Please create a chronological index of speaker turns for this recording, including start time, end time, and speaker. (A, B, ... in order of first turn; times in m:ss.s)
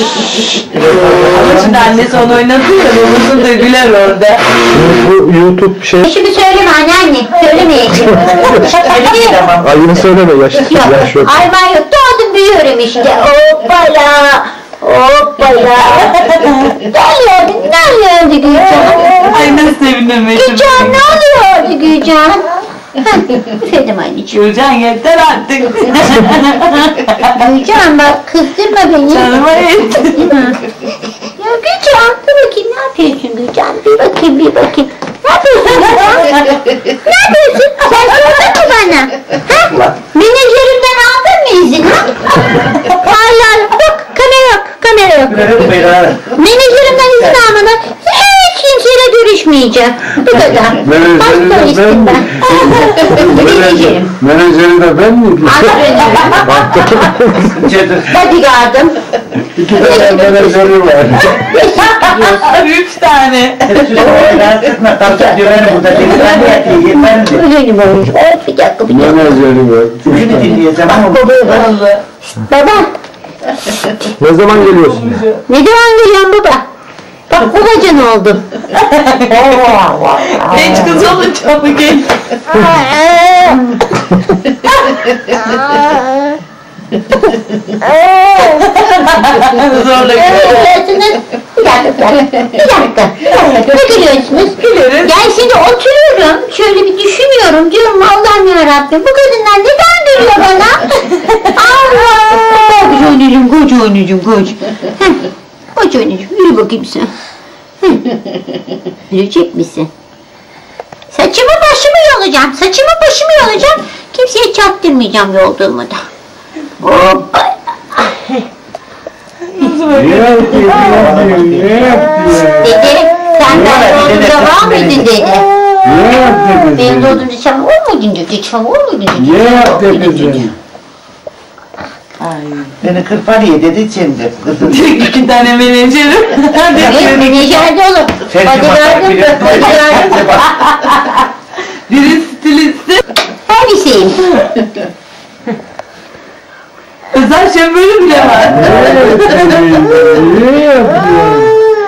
0:00.6-0:02.4 A
0:01.0-0:04.6 B
0:04.7-0:06.0 C
0:06.0-0:09.4 D
0:08.4-0:10.1 A
0:09.6-0:11.3 C
0:10.6-0:19.5 D
0:19.2-0:21.0 B
0:20.3-0:24.4 D
0:24.3-0:27.4 B
0:27.3-0:29.4 D
0:29.1-0:30.3 B
0:30.2-0:30.6 D
0:31.2-0:45.6 D
0:39.5-0:40.0 A
0:45.3-0:46.3 A
0:46.3-0:54.1 D
0:47.1-0:47.4 A
0:50.8-0:55.8 C
0:52.5-0:53.1 B
0:55.4-0:57.1 D
0:56.4-0:57.5 C
0:57.5-0:58.2 A
0:58.1-0:59.0 D
0:59.5-1:02.6 D
0:59.6-1:01.5 C
1:02.0-1:03.6 B
1:03.6-1:07.4 A
1:03.9-1:04.5 D
1:05.0-1:06.2 D
1:06.2-1:06.6 B
1:06.9-1:09.4 D
1:08.9-1:10.5 C
1:10.0-1:11.4 A
1:11.1-1:11.7 D
1:11.3-1:12.0 B
1:12.2-1:12.9 D
1:14.1-1:15.1 C
1:14.6-1:15.4 B
1:15.5-1:16.6 D
1:17.3-1:18.5 D
1:18.7-1:19.4 B
1:19.2-1:21.1 D
1:20.4-1:22.2 B
1:22.5-1:23.7 D
1:27.8-1:28.7 D
1:28.5-1:30.7 B
1:30.1-1:47.1 D
1:34.6-1:35.2 B
1:47.8-1:48.2 D
1:49.1-1:49.9 D
1:51.1-1:56.0 D
1:56.8-1:58.4 D
1:59.5-2:01.1 B
1:59.9-2:02.8 C
2:00.8-2:02.1 A
2:02.4-2:10.5 D
2:03.5-2:05.1 A
2:05.8-2:07.2 C
2:09.2-2:10.5 C
2:12.2-2:12.8 B
2:12.8-2:14.8 A
2:14.6-2:17.3 B
2:16.8-2:20.4 D
2:16.8-2:17.2 A
2:18.3-2:20.6 A
2:20.5-2:21.3 B
2:21.9-2:23.0 B
2:23.4-2:24.2 D
2:27.1-2:29.8 B
2:28.5-2:31.5 C